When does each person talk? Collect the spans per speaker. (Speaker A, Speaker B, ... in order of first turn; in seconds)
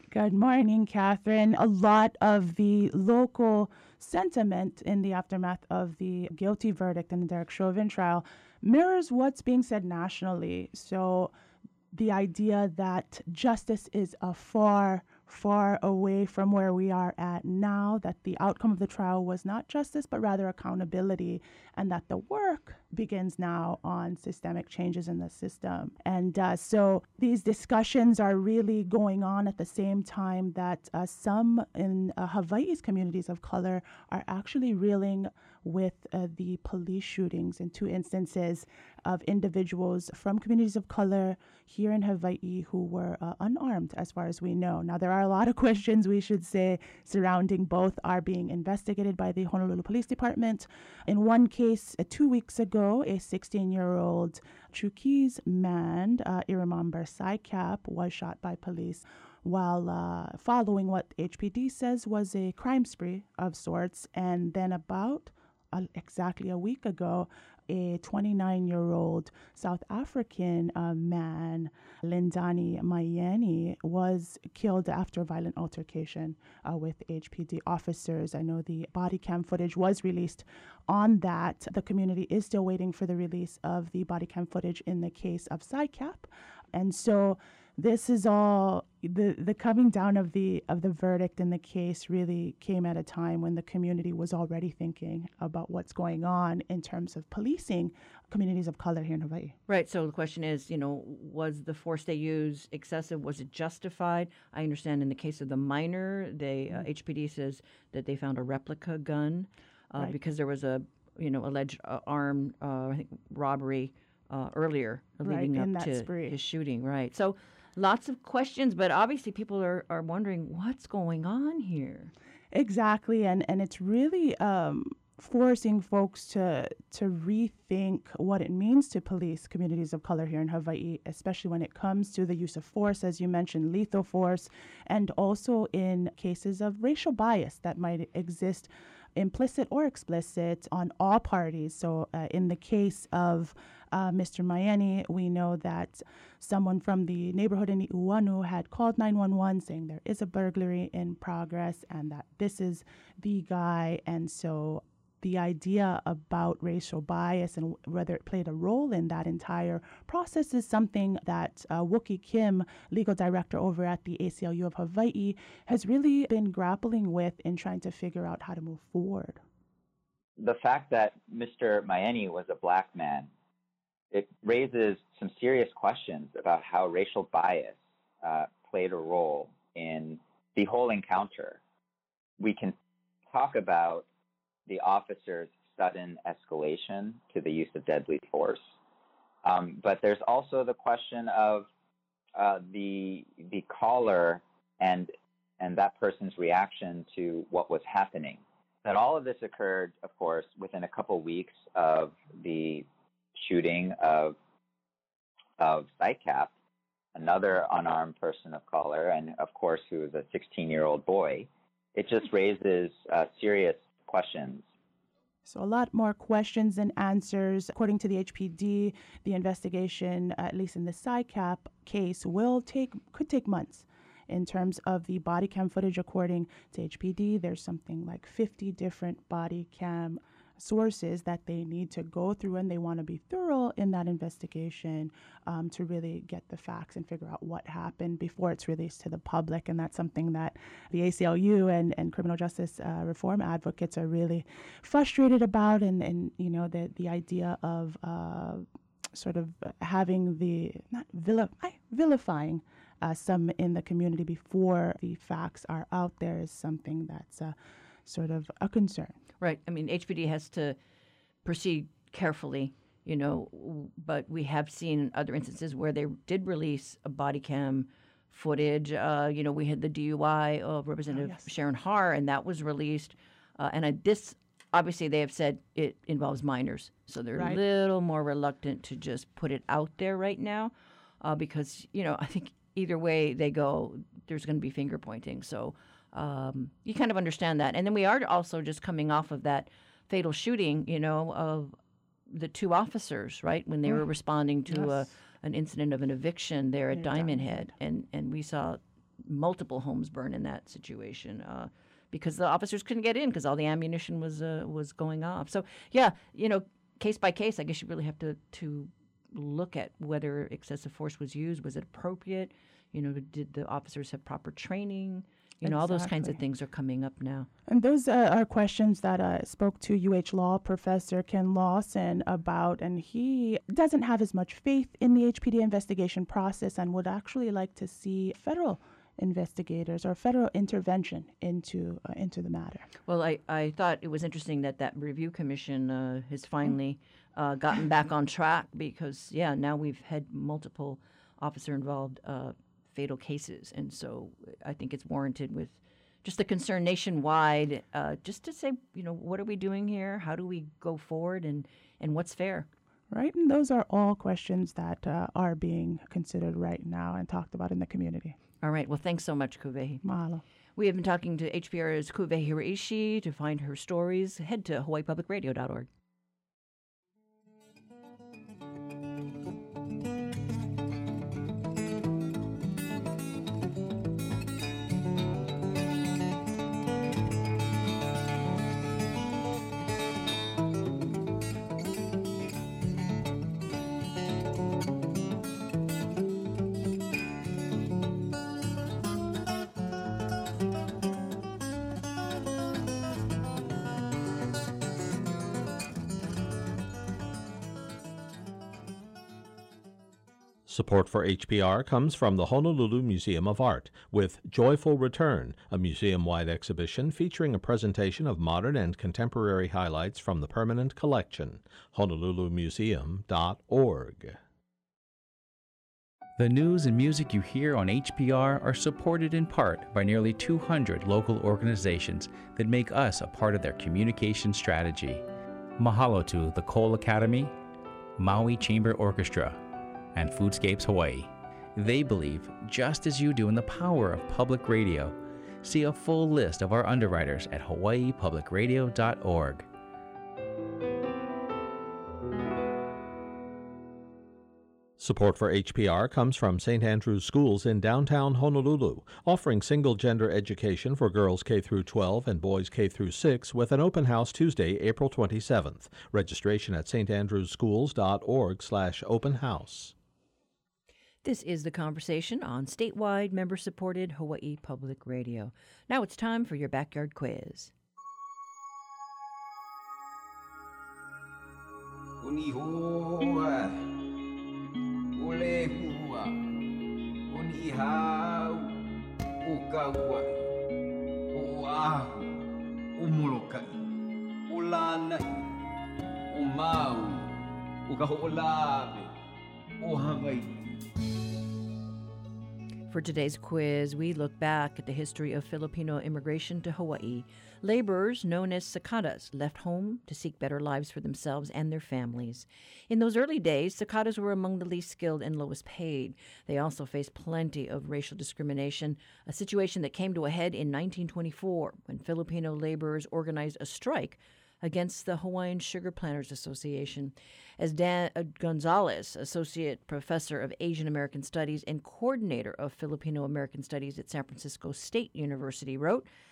Speaker A: 0.1-11.3, 11.9-99.5, 115.2-116.3, 122.5-169.4, 215.4-259.2, 271.1-271.4, 294.7-295.1, 296.9-297.7, 315.6-316.4, 317.7-332.9, 353.1-358.4, 360.0-360.4
Speaker B: 99.7-122.1, 259.4-260.8, 261.4-291.7, 292.3-317.5, 333.1-352.7, 358.6-360.0, 360.8-365.9, 461.2-467.7, 492.9-526.1
Speaker C: 170.4-173.3, 174.1-181.6, 182.4-182.7, 183.3-184.0, 184.7-188.6, 189.4-191.7, 192.3-202.8, 203.4-204.4, 205.6-206.5, 207.1-214.7
Speaker D: 400.6-414.4, 445.0-459.9
Speaker E: 416.4-425.2, 425.8-427.5, 428.2-429.6, 430.1-439.7
Speaker F: 472.2-473.9, 475.1-476.4, 477.3-478.7, 479.4-480.5, 481.3-483.8, 484.5-485.4, 486.3-489.1, 489.8-490.6